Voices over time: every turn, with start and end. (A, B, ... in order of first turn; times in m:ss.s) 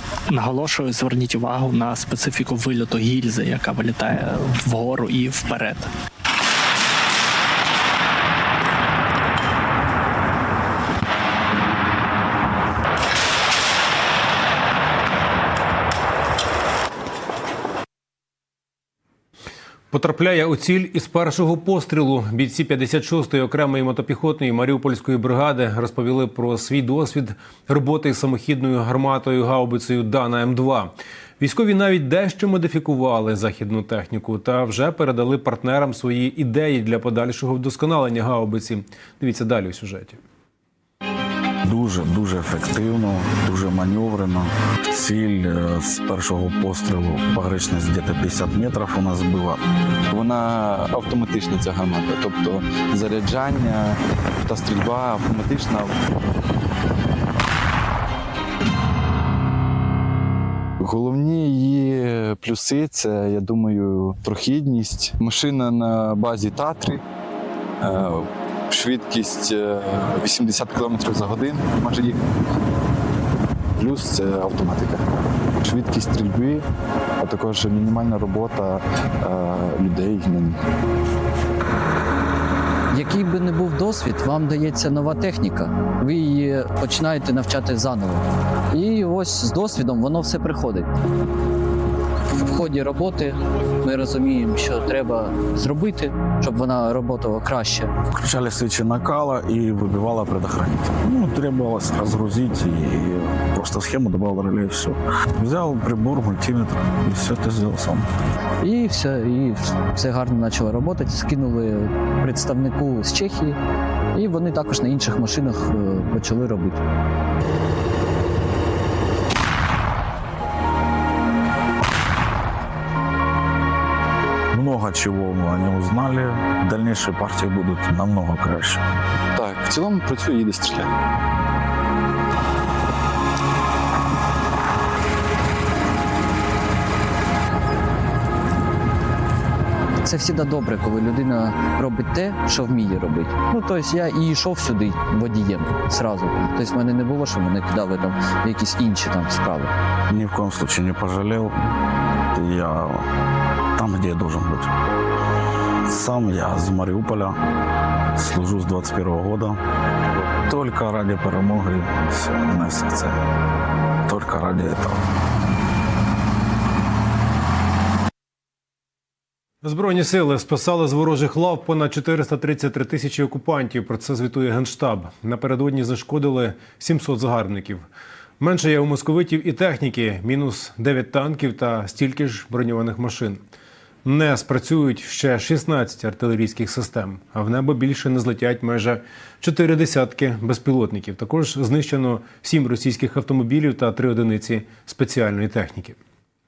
0:00.3-0:05.9 A
0:19.9-0:40.2 B
0:41.6-0:49.6 C
0:50.1-0:55.9 D
1:00.8-1:07.0 D
1:07.8-1:12.2 D
1:13.8-1:15.0 D
1:15.6-1:16.6 D
1:17.2-1:20.6 D
1:22.9-1:30.9 E
1:32.5-1:37.9 E
1:38.1-1:48.0 C
1:48.6-1:53.6 E
1:54.1-1:56.8 E
2:04.5-2:08.8 C
2:09.4-2:10.9 D
2:20.0-2:29.7 E
2:30.1-2:31.6 C
2:32.3-2:33.0 C
2:33.8-2:34.7 C
2:35.9-2:37.4 C
2:38.2-2:39.6 C
2:40.5-2:43.2 C
2:44.0-2:45.0 C
2:49.6-2:57.8 B
2:58.4-3:03.4 B
3:04.0-3:16.0 B